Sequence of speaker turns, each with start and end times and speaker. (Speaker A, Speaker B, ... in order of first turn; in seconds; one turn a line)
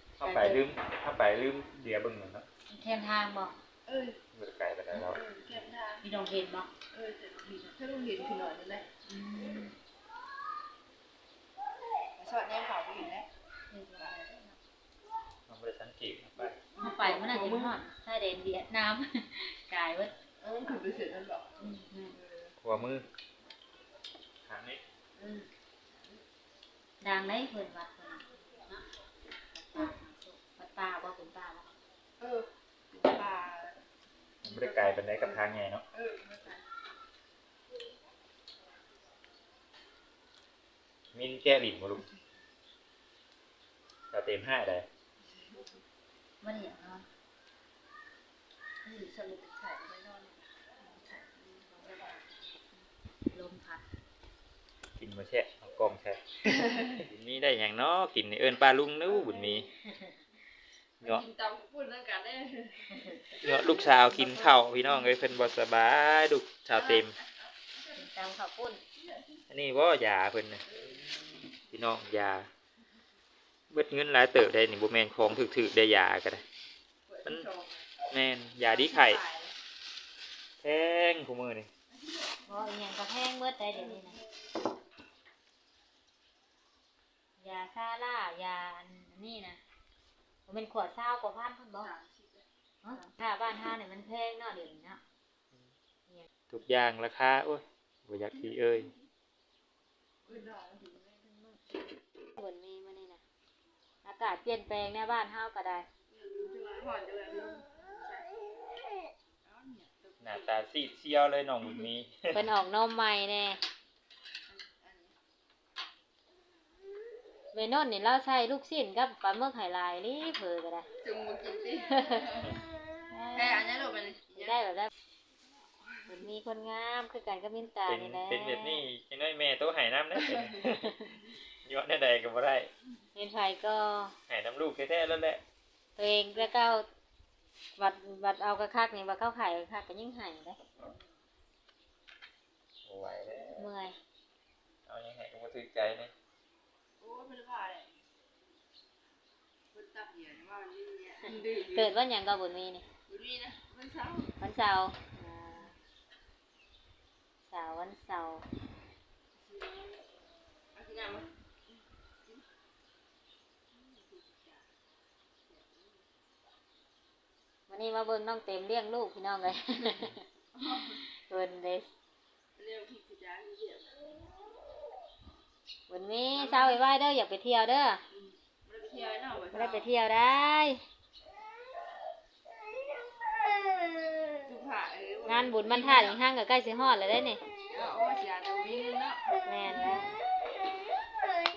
Speaker A: 0.2-2.5
Speaker B: 0.2-0.7
Speaker B: 2.7-3.6
Speaker C: 3.9-4.2
Speaker A: 4.3-5.2
Speaker C: 4.9-6.0
Speaker B: 6.0-6.7
Speaker C: 6.9-8.9
Speaker B: 9.1-9.8
Speaker C: 12.2-13.3
Speaker B: 13.7-14.6
Speaker A: 15.5-16.6
Speaker C: 16.8-17.8
Speaker B: 16.8-20.1
Speaker C: 20.4-21.5
Speaker B: 21.6-22.2
Speaker C: 22.1-22.6
Speaker A: 22.6-23.1
Speaker A: 24.5-24.8
Speaker C: 25.2-25.5
Speaker B: 27.0-28.9
Speaker B: 29.5-31.7
Speaker C: 32.2-33.8
Speaker A: 34.4-35.8
Speaker C: 34.4-36.6
Speaker A: 41.1-42.0
Speaker A: 44.1-44.9
Speaker B: 46.4-47.1
Speaker C: 48.8-52.5
Speaker B: 53.3-53.8
Speaker A: 55.0-59.7
Speaker C: 59.1-59.7
Speaker B: 59.8-60.2
Speaker C: 61.0-63.9
Speaker A: 63.3-67.2
Speaker C: 66.7-68.1
Speaker B: 68.0-68.8
Speaker C: 69.0-69.4
Speaker A: 69.5-70.7
Speaker C: 70.7-71.0
Speaker A: 71.7-72.5
Speaker A: 73.7-76.4
Speaker C: 77.1-77.9
Speaker A: 78.1-79.2
Speaker C: 78.7-79.5
Speaker A: 80.6-81.7
Speaker C: 81.9-82.7
Speaker B: 82.5-84.2
Speaker C: 83.7-84.2
Speaker B: 87.4-89.6
Speaker B: 90.5-91.9
Speaker C: 91.8-93.1
Speaker B: 92.8-95.0
Speaker A: 96.5-98.9
Speaker C: 98.4-99.0
Speaker C: 100.2-101.6
Speaker B: 102.3-103.2
Speaker B: 104.0-105.9
Speaker C: 106.1-108.4
Speaker C: 109.5-110.7
Speaker A: 110.2-112.4
Speaker B: 112.3-113.6
Speaker C: 114.5-115.2
Speaker B: 117.5-120.9
Speaker C: 121.0-122.6
Speaker B: 123.1-123.7
Speaker C: 123.3-124.6
Speaker B: 124.3-124.9
Speaker C: 125.9-126.3
Speaker B: 126.1-128.8
Speaker A: 127.9-132.7
Speaker B: 133.2-134.2
Speaker A: 134.3-135.4
Speaker B: 136.0-136.9
Speaker B: 137.8-140.6
Speaker A: 142.8-143.7
Speaker B: 143.6-144.0
Speaker A: 144.9-146.1
Speaker C: 147.0-148.0
Speaker C: 149.7-152.0
Speaker B: 151.6-152.9
Speaker C: 153.1-154.3
Speaker B: 154.4-155.8
Speaker B: 157.5-158.5
Speaker C: 159.4-159.8
Speaker C: 160.7-162.4
Speaker C: 163.7-164.7
Speaker C: 165.5-166.1
Speaker B: 167.7-170.2
Speaker C: 170.6-171.1
Speaker B: 170.8-171.9
Speaker C: 172.6-174.2
Speaker B: 175.9-178.0
Speaker C: 176.3-176.8
Speaker C: 178.1-179.9
Speaker B: 179.5-180.8
Speaker C: 184.4-186.2
Speaker B: 185.3-187.5
Speaker C: 187.7-189.9
Speaker B: 189.4-190.2